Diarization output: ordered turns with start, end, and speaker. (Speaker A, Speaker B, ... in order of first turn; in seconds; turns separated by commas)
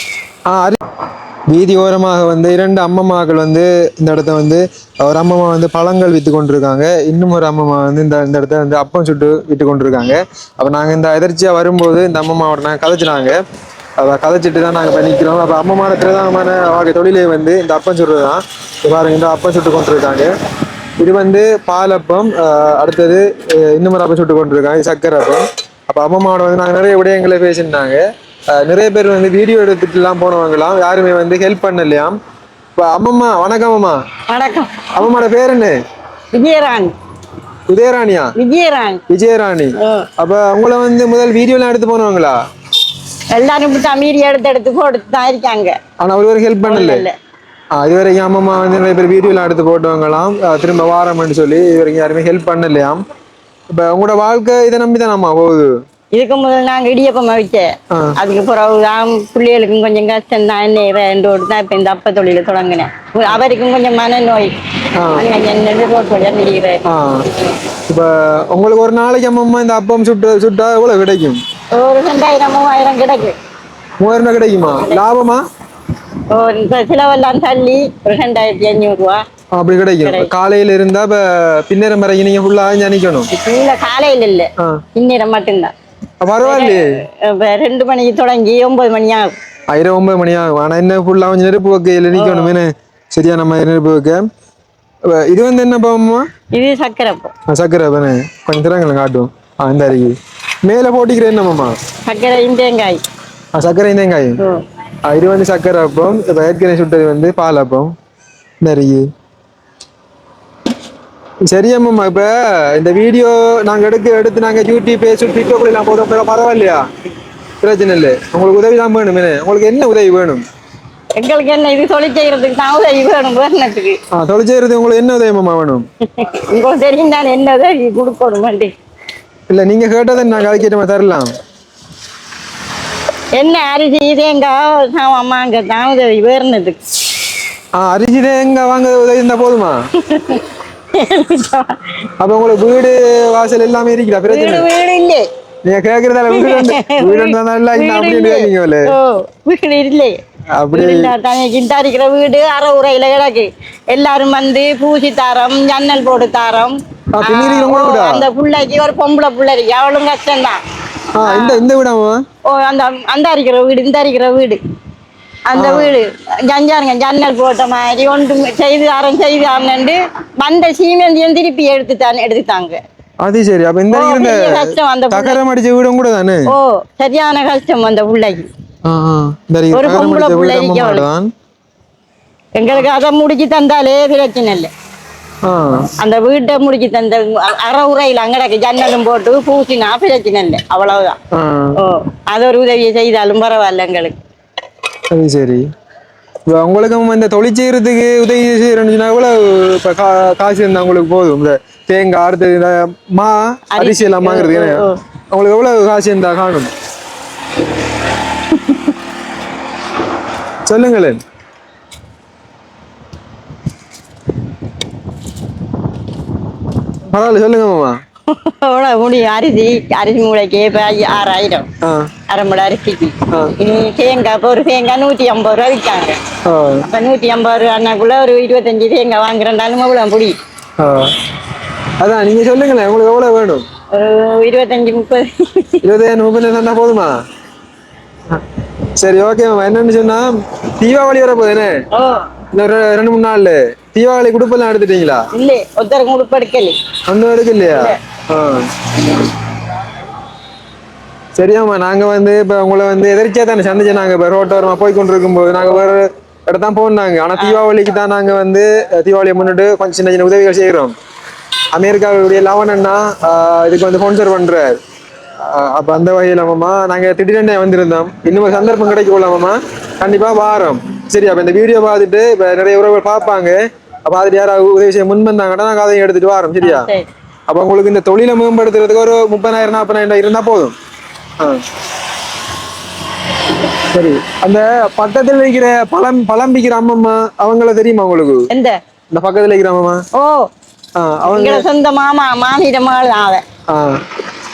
Speaker A: 0.5-0.8, Speaker A: 1.5-13.4, Speaker A: 14.0-20.3, Speaker A: 21.0-28.0, Speaker A: 28.5-32.2, Speaker A: 32.8-34.0, Speaker B: 34.3-34.9, Speaker A: 35.0-35.8, Speaker B: 36.3-36.9, Speaker A: 37.7-38.3, Speaker B: 38.4-39.0, Speaker A: 39.1-42.4, Speaker B: 39.8-40.1, Speaker B: 43.3-45.8, Speaker A: 46.0-47.1, Speaker B: 46.7-47.1, Speaker A: 47.8-53.0, Speaker A: 53.7-55.7, Speaker B: 56.1-64.5, Speaker A: 65.0-65.2, Speaker B: 65.1-66.9, Speaker A: 66.9-67.2, Speaker A: 67.9-71.4, Speaker B: 71.8-73.3, Speaker A: 74.0-75.4, Speaker B: 76.3-79.2, Speaker A: 79.5-83.3, Speaker B: 80.0-80.3, Speaker B: 83.3-85.7, Speaker A: 86.2-86.9, Speaker B: 86.4-89.3, Speaker A: 89.7-94.3, Speaker B: 92.1-92.5, Speaker A: 95.1-96.2, Speaker B: 96.5-97.3, Speaker A: 97.5-101.7, Speaker B: 102.1-103.0, Speaker A: 103.5-104.4, Speaker A: 105.1-107.9, Speaker A: 108.6-109.0, Speaker A: 111.5-116.8, Speaker A: 117.6-120.4, Speaker B: 121.2-124.0, Speaker A: 124.1-125.8, Speaker B: 126.2-128.7, Speaker A: 129.5-131.3, Speaker B: 133.4-136.8, Speaker A: 137.8-139.8, Speaker B: 140.0-141.9, Speaker A: 142.2-144.7, Speaker B: 144.3-145.2, Speaker A: 145.7-148.9, Speaker B: 146.3-150.2, Speaker A: 150.6-151.1, Speaker B: 150.7-160.6, Speaker A: 157.1-158.3, Speaker A: 161.2-162.2, Speaker B: 161.2-161.6, Speaker B: 162.5-164.6, Speaker B: 165.5-172.8, Speaker A: 165.6-166.0, Speaker A: 173.2-176.5, Speaker B: 173.9-175.4, Speaker B: 176.5-178.5, Speaker A: 178.8-181.3, Speaker B: 179.7-181.1, Speaker B: 182.6-184.7, Speaker A: 185.4-185.9, Speaker B: 186.0-191.2, Speaker A: 191.3-191.8, Speaker B: 191.8-194.2, Speaker A: 195.1-195.7, Speaker A: 196.5-206.7, Speaker B: 203.8-205.0, Speaker B: 208.5-208.9, Speaker A: 210.7-211.2, Speaker A: 217.1-218.0, Speaker B: 218.3-221.7, Speaker A: 221.8-222.1, Speaker B: 222.3-226.2, Speaker A: 226.4-226.9, Speaker B: 226.9-230.4, Speaker A: 230.8-231.1, Speaker A: 232.0-233.7, Speaker B: 233.9-235.8, Speaker A: 235.8-237.1, Speaker A: 239.0-240.3, Speaker A: 240.8-241.8, Speaker B: 241.9-242.2, Speaker A: 242.5-245.2, Speaker B: 245.3-246.8, Speaker A: 247.1-249.2, Speaker B: 247.7-248.0, Speaker A: 251.3-260.9, Speaker B: 257.4-257.7, Speaker A: 261.7-264.8, Speaker A: 265.4-276.9, Speaker B: 276.6-277.1, Speaker A: 277.5-280.8, Speaker A: 281.4-281.6, Speaker A: 283.9-288.5, Speaker B: 288.5-288.8, Speaker A: 289.1-290.0, Speaker B: 290.1-290.5, Speaker A: 291.0-291.7, Speaker B: 291.3-293.4, Speaker A: 293.7-294.0